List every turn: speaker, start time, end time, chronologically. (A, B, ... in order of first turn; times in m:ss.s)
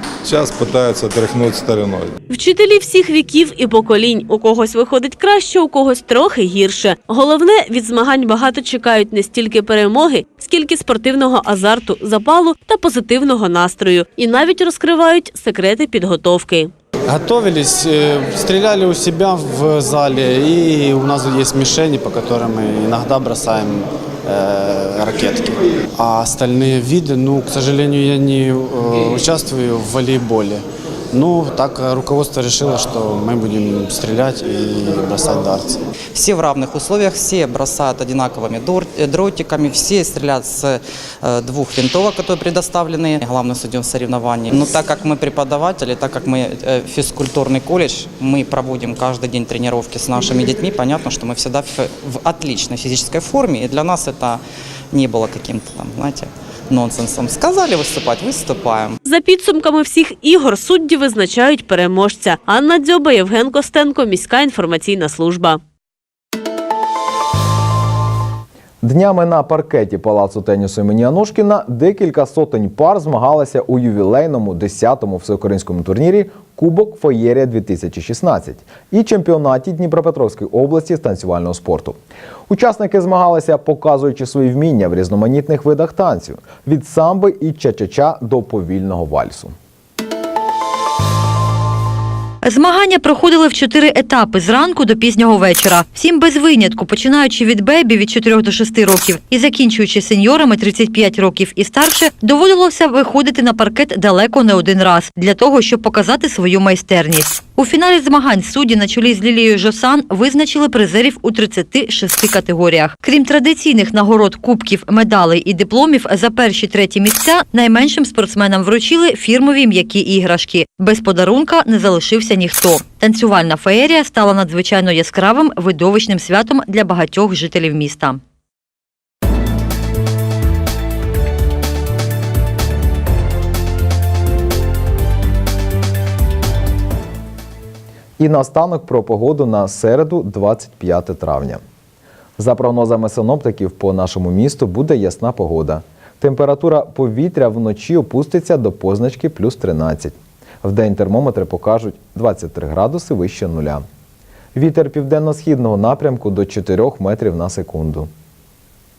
0:00.2-0:02.2 A
0:02.3-0:16.7 B
0:17.1-0:35.8 C
0:36.1-0:59.0 D
0:59.0-1:05.6 B
1:08.8-1:29.6 E
1:32.4-2:08.2 F
2:18.2-2:21.6 E
2:22.4-2:33.9 E
2:34.6-2:38.1 E